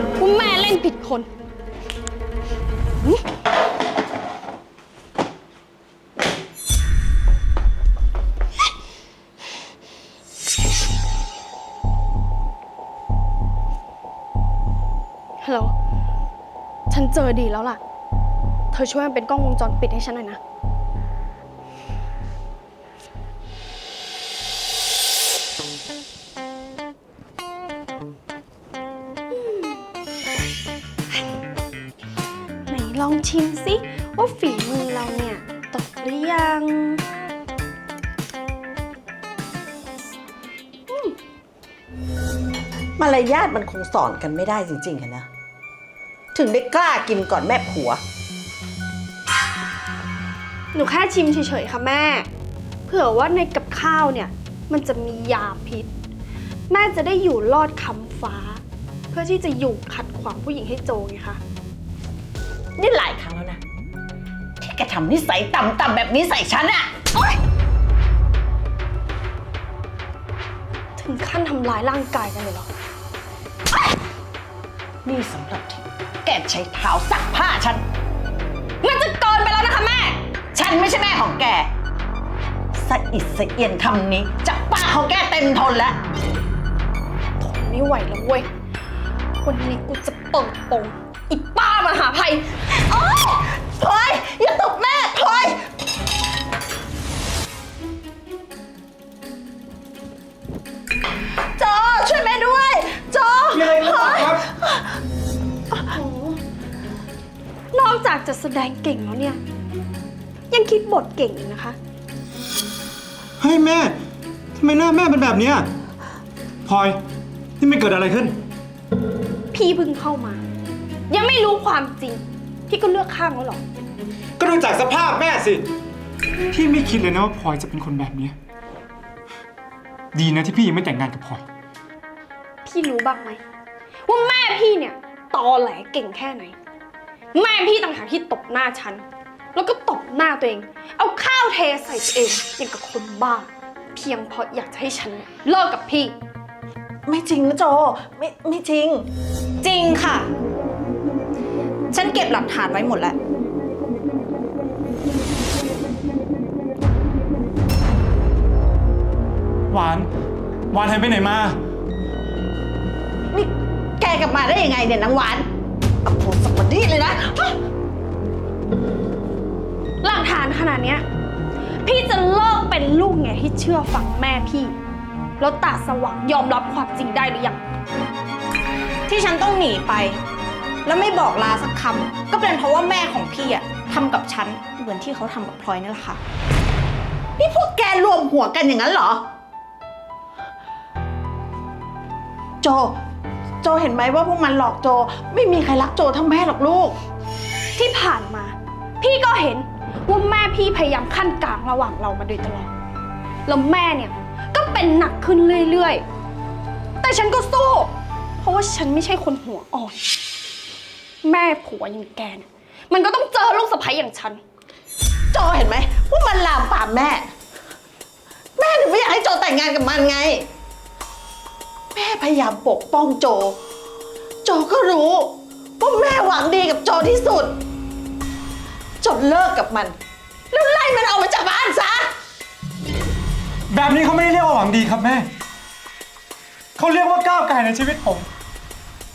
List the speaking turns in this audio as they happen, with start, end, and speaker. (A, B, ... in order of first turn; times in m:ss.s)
0:00.2-0:01.3 A
0:15.4-0:15.7 A
0:16.9-0:17.8 A
0:18.7-0:20.4 A
0:29.3-0:29.8 A
0:32.7-0:37.0 A
0:40.9-0:41.2 A
0:43.0-0:45.3 B
0:46.3-0:48.0 B
0:50.7-0:52.3 A
0:52.8-0:55.9 A
0:56.7-1:01.4 A
1:02.8-1:03.6 B
1:04.6-1:06.9 B
1:11.0-1:12.7 A
1:15.0-1:17.8 B
1:18.8-1:20.2 A
1:20.5-1:21.7 B
1:22.7-1:26.0 B
1:27.4-1:28.5 A
1:29.4-1:32.5 A
1:32.7-1:35.6 B
1:41.6-1:44.8 B
1:43.5-1:44.4 C
1:45.7-1:46.4 B
1:47.7-1:49.4 A
1:50.5-1:51.8 A
1:53.4-1:53.9 C
1:54.5-1:55.7 C
1:56.6-1:57.0 C
1:57.6-1:58.4 C
1:59.5-2:00.4 A
2:01.1-2:03.6 A
2:04.4-2:05.6 C
2:06.5-2:08.3 C
2:10.1-2:11.4 C
2:12.6-2:13.4 A
2:14.0-2:16.5 A
2:17.3-2:19.0 A
2:19.5-2:26.1 A
2:27.0-2:29.0 B
2:29.6-2:30.3 D
2:31.9-2:33.2 D
2:39.7-2:40.1 C
2:40.7-2:41.6 C
2:43.3-2:45.4 B
2:46.0-2:47.6 B
2:50.0-2:51.0 A
2:51.8-2:54.8 A
2:55.4-2:57.6 A
2:59.1-3:00.2 D
3:00.8-3:06.2 D
3:07.4-3:09.2 B
3:12.6-3:12.9 B
3:13.6-3:16.9 B
3:17.8-3:22.7 A
3:23.4-3:26.0 A
3:27.0-3:30.0 A
3:31.2-3:34.4 A
3:35.3-3:37.3 B
3:38.6-3:40.4 B
3:41.9-3:43.6 B
3:44.4-3:47.6 B
3:49.0-3:49.9 B
3:50.5-3:52.1 B
3:53.7-3:55.3 C
3:56.8-3:58.3 C